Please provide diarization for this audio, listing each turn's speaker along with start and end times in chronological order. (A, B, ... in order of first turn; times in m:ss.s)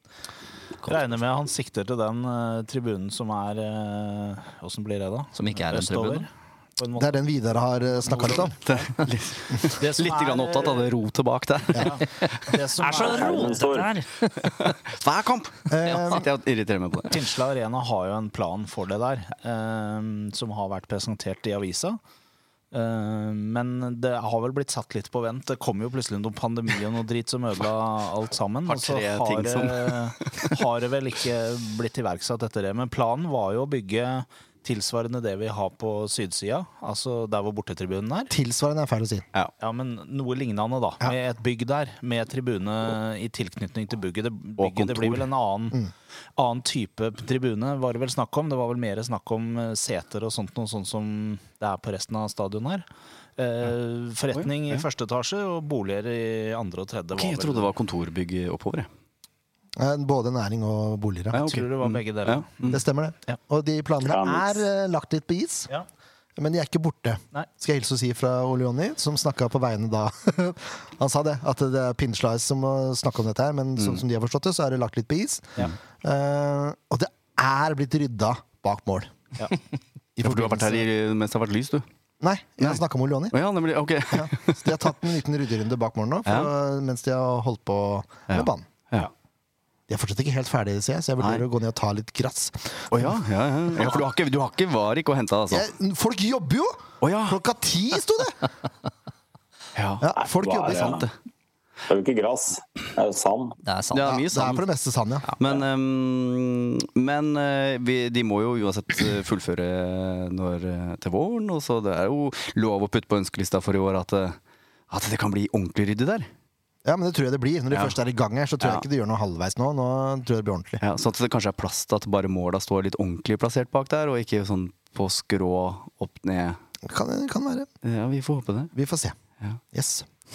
0:00.9-0:07.2 A
0:05.3-0:06.3 B
0:07.0-0:08.5 C
0:07.9-0:08.9 A
0:08.6-0:12.5 D
0:09.8-0:10.9 A
0:11.7-0:12.0 C
0:11.8-0:13.9 A
0:12.8-0:14.7 B
0:12.9-0:13.9 E
0:14.4-0:17.2 D
0:15.7-0:16.3 C
0:15.8-0:16.2 B
0:17.1-0:22.0 A
0:22.7-0:38.3 A
0:28.6-0:30.5 D
0:38.3-0:39.2 C
0:39.6-0:45.8 A
0:44.6-0:45.3 D
0:46.4-0:52.8 A
0:53.4-0:57.7 A
0:54.3-0:54.8 D
0:57.1-0:58.9 D
0:59.8-1:01.6 C
1:01.3-1:02.8 D
1:01.4-1:02.5 A
1:02.7-1:05.7 C
1:04.0-1:04.6 E
1:06.4-1:19.1 C
1:20.2-1:20.8 C
1:20.2-1:21.8 D
1:22.2-1:23.3 C
1:23.3-1:24.8 D
1:24.1-1:28.7 C
1:28.3-1:29.1 D
1:29.9-1:33.2 C
1:31.2-1:31.4 D
1:32.9-1:35.6 D
1:35.5-1:38.5 C
1:37.0-1:37.4 D
1:39.7-1:40.1 D
1:40.0-1:41.0 C
1:40.2-1:41.0 E
1:40.8-1:41.1 D
1:41.9-1:43.6 E
1:43.6-1:44.2 B
1:43.9-1:44.6 D
1:44.0-1:45.3 C
1:45.4-1:54.4 D
1:54.9-1:56.3 D
1:56.8-2:00.8 C
1:57.7-1:58.0 D
2:00.8-2:06.6 D
2:06.8-2:07.7 C
2:07.8-2:08.7 D
2:08.7-2:09.2 C
2:09.7-2:10.1 C